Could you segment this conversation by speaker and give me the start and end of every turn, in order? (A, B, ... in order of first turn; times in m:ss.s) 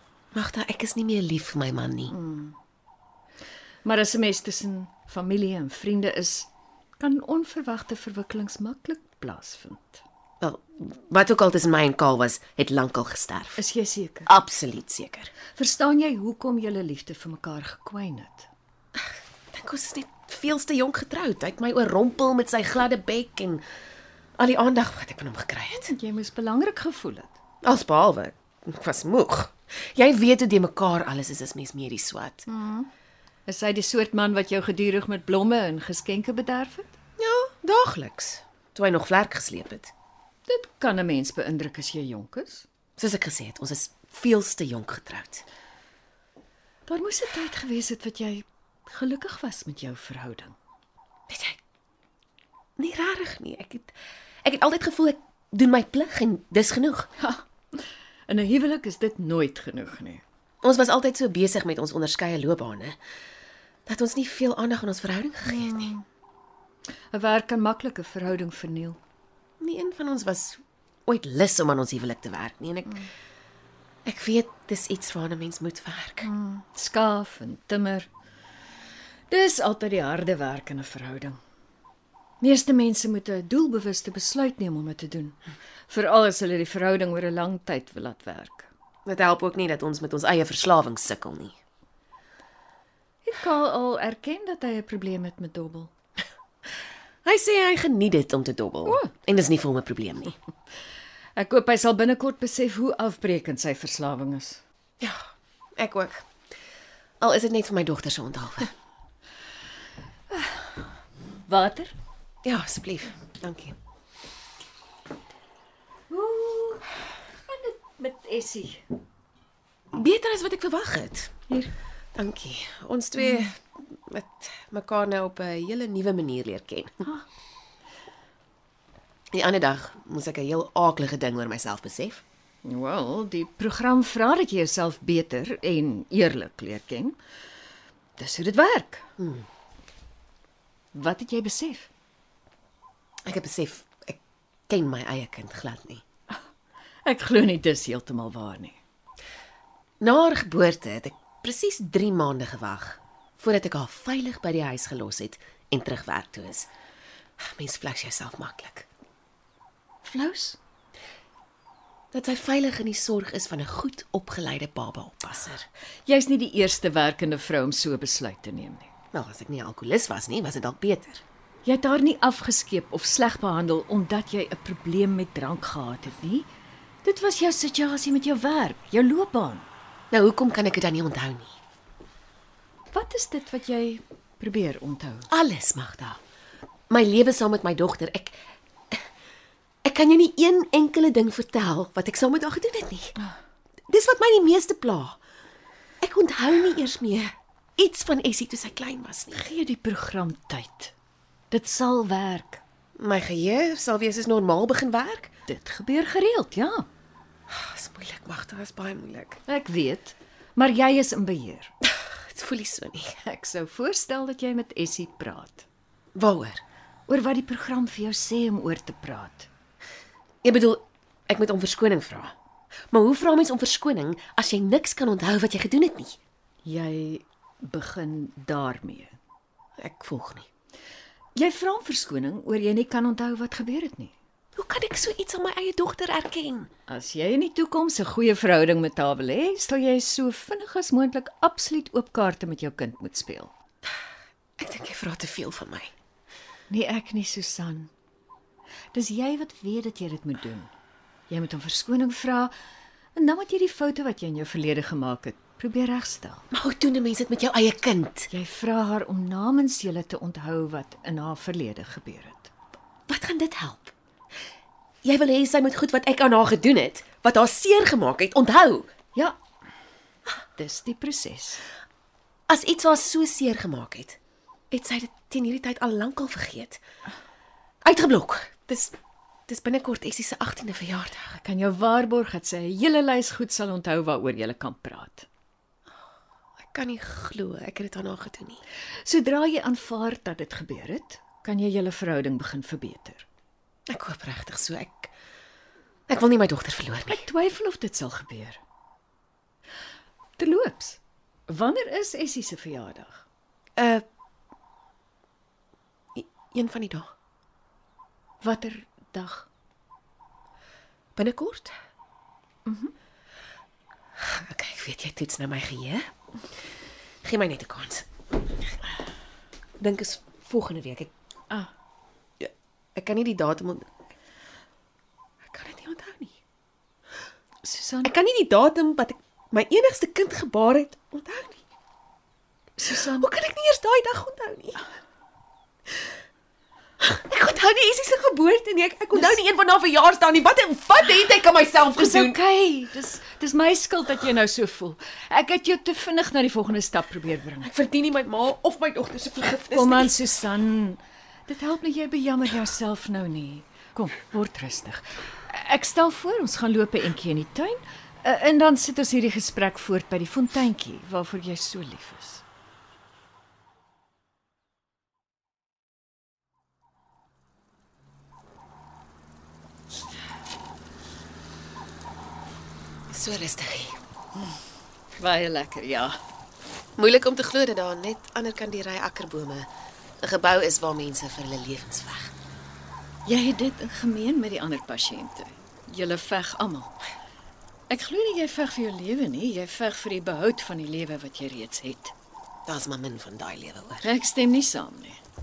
0:00.3-0:02.1 A
0:02.1-0:02.6 B
0:03.8-0:10.0 B
0:10.4-0:13.6 A
0:13.6-0:14.3 B
0:14.2-0:15.3 A
0:15.6-0:18.5 B
0:19.0-0:23.6 A
0:24.4-0:25.9 A
0:25.8-0:27.4 B
0:27.6-0:32.5 A
0:32.5-0:32.9 B
0:33.4-0:36.9 B
0:37.2-0:39.9 A
0:40.5-0:42.6 B
0:43.0-0:45.4 A
0:46.9-0:50.6 B
0:51.3-0:51.6 A
0:52.8-0:53.9 A
0:54.4-0:57.1 A
0:57.2-0:57.4 B
0:58.3-1:00.2 B
1:00.6-1:03.0 A
1:03.8-1:05.9 A
1:05.6-1:06.0 B
1:07.1-1:09.0 B
1:09.6-1:13.1 A
1:14.0-1:16.3 A
1:16.2-1:18.1 B
1:19.3-1:21.4 B
1:22.4-1:28.7 B
1:29.0-1:31.6 A
1:33.2-1:35.9 B
1:37.2-1:40.3 A
1:41.4-1:44.6 B
1:45.8-1:46.2 A
1:47.2-1:48.7 A
1:50.3-1:50.6 B
1:51.4-1:51.9 B
1:52.4-1:53.7 A
1:56.1-1:56.9 B
1:57.4-1:58.8 B
1:59.9-2:01.3 A
2:02.2-2:07.1 A
2:09.3-2:12.2 A
2:12.6-2:17.2 B
2:18.2-2:19.1 B
2:19.2-2:19.4 A
2:20.9-2:21.9 B
2:23.2-2:26.0 A
2:27.0-2:28.8 B
2:30.0-2:36.7 A
2:37.4-2:38.9 A
2:40.0-2:40.6 B
2:42.1-2:45.7 A
2:46.1-2:48.9 B
2:49.1-2:51.2 A
2:51.6-2:56.5 B
2:57.0-2:59.7 B
3:00.1-3:01.5 A
3:02.9-3:05.3 B
3:05.3-3:06.2 A
3:06.9-3:08.4 A
3:09.8-3:13.1 A
3:13.9-3:15.2 A
3:16.0-3:19.4 A
3:19.3-3:20.9 B
3:21.5-3:22.6 B
3:23.0-3:25.3 A
3:25.5-3:26.9 B
3:27.5-3:29.4 A
3:29.4-3:31.7 B
3:31.8-3:33.2 A
3:33.2-3:35.6 B
3:36.2-3:36.6 A
3:37.1-3:39.5 B
3:40.4-3:42.3 A
3:42.9-3:46.2 A
3:46.6-3:49.2 B
3:49.8-3:50.4 A
3:51.4-3:54.1 B
3:54.6-3:56.7 A
3:56.9-4:03.5 B
4:04.6-4:05.9 A
4:06.7-4:07.9 B
4:08.9-4:10.7 B
4:11.3-4:12.5 B
4:13.2-4:16.4 B
4:16.5-4:18.3 A
4:18.3-4:22.5 B
4:23.1-4:23.9 A
4:25.0-4:28.9 A
4:30.6-4:31.6 B
4:32.5-4:34.2 A
4:34.7-4:36.8 A
4:37.8-4:39.0 A
4:39.5-4:41.4 A
4:41.4-4:45.3 B
4:46.7-4:48.6 A
4:49.0-4:53.2 B
4:53.9-4:55.1 A
4:56.1-4:57.2 A
4:57.1-4:58.6 B
5:00.4-5:03.2 B
5:03.8-5:04.0 A
5:06.1-5:07.1 A
5:08.4-5:09.5 B
5:11.2-5:11.7 A
5:12.6-5:12.9 B
5:14.2-5:16.0 A
5:17.2-5:18.1 A
5:19.8-5:21.1 A
5:22.4-5:23.9 A
5:25.4-5:26.3 A
5:27.6-5:28.1 B
5:28.0-5:31.6 A
5:32.8-5:33.3 B
5:32.9-5:34.8 A
5:37.0-5:42.4 A
5:42.0-5:47.7 B
5:47.6-5:50.2 A
5:49.7-6:02.4 B
6:13.1-6:14.0 A
6:15.2-6:16.2 B
6:17.0-6:19.7 A
6:20.2-6:22.3 A
6:23.2-6:26.9 B
6:27.9-6:32.1 B
6:32.7-6:34.1 A
6:34.0-6:35.2 B